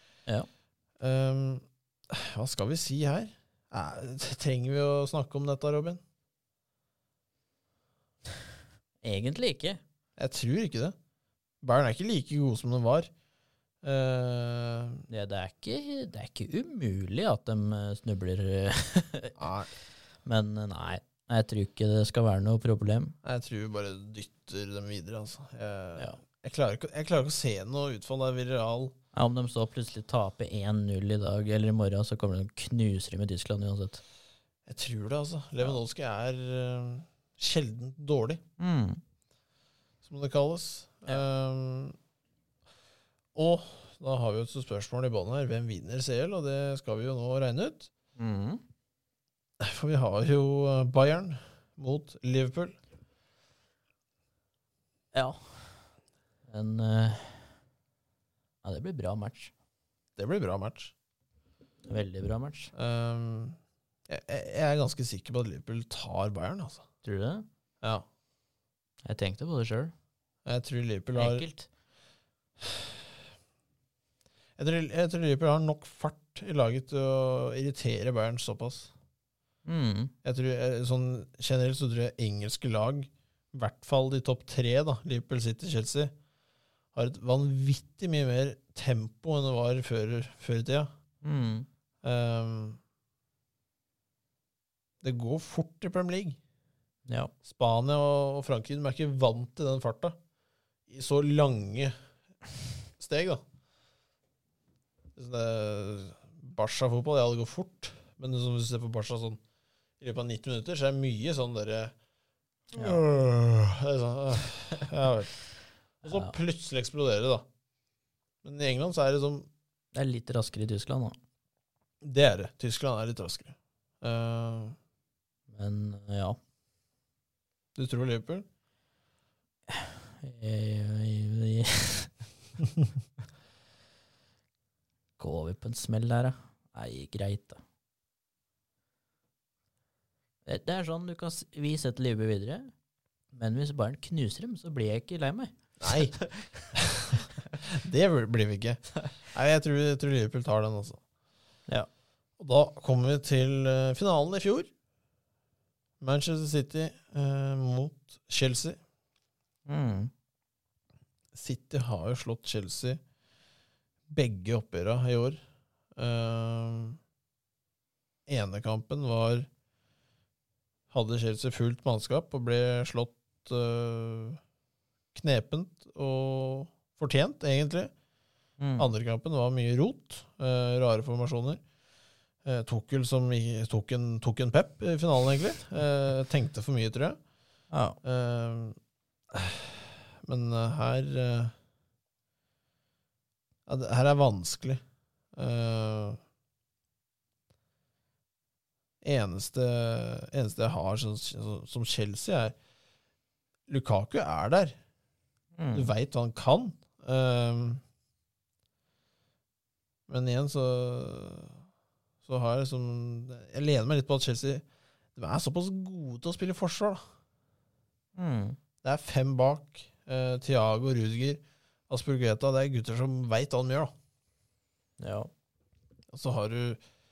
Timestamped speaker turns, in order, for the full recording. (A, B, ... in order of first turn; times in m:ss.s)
0:01.0-0:06.0 A
0:09.0-0:09.8 B
0:10.2-0:10.9 A
0:11.6-0:13.1 A
0:13.8-0:15.0 A
0:15.1-0:19.4 B
0:19.4-0:19.7 A
0:20.2-0:23.2 B
0:23.2-0:28.9 A
0:29.1-0:34.0 B
0:34.7-0:38.4 A
0:38.6-0:39.0 B
0:40.0-0:42.0 A
0:43.3-0:47.9 A
0:48.2-0:48.6 B
0:49.6-0:52.8 A
0:55.1-0:55.7 B
0:56.5-0:57.5 B
0:58.6-0:59.5 B
1:00.2-1:00.9 A
1:01.9-1:02.7 B
1:02.7-1:06.8 A
1:07.0-1:07.4 B
1:09.0-1:09.9 B
1:10.4-1:11.4 A
1:11.1-1:11.7 B
1:12.6-1:12.9 A
1:14.6-1:18.9 A
1:19.6-1:20.1 B
1:20.2-1:26.1 A
1:26.9-1:30.9 A
1:31.2-1:31.7 B
1:32.0-1:32.8 A
1:35.0-1:36.4 A
1:37.1-1:37.3 B
1:37.4-1:40.2 A
1:40.9-1:41.9 A
1:43.0-1:43.4 A
1:45.2-1:49.4 A
1:50.0-1:51.9 A
1:52.7-1:55.4 A
1:52.7-1:53.0 B
1:56.0-1:56.3 B
1:56.0-1:57.4 A
1:58.4-1:59.5 A
1:59.9-2:01.2 B
2:02.0-2:04.8 A
2:05.5-2:06.4 B
2:07.7-2:08.4 A
2:09.7-2:12.1 B
2:15.2-2:17.6 B
2:20.4-2:22.7 B
2:23.3-2:26.5 B
2:25.8-2:26.1 A
2:26.7-2:31.0 A
2:32.4-2:34.7 A
2:36.0-2:38.8 A
2:39.6-2:40.1 B
2:41.3-2:43.0 A
2:44.1-2:45.4 A
2:46.0-2:47.0 A
2:48.3-2:49.5 A
2:50.9-2:54.4 A
2:55.1-2:57.9 A
2:58.6-2:58.9 B
2:58.8-3:01.6 A
3:02.4-3:07.2 A
3:07.7-3:08.0 B
3:08.0-3:08.8 A
3:09.3-3:11.5 A
3:13.7-3:14.8 A
3:15.3-3:16.2 A
3:19.0-3:22.5 A
3:23.7-3:24.8 A
3:25.6-3:25.9 B
3:25.7-3:27.8 A
3:30.1-3:31.6 A
3:32.2-3:34.6 A
3:35.2-3:37.0 A
3:38.2-3:38.6 B
3:38.8-3:43.9 A
3:45.0-3:45.3 B
3:46.1-3:46.8 A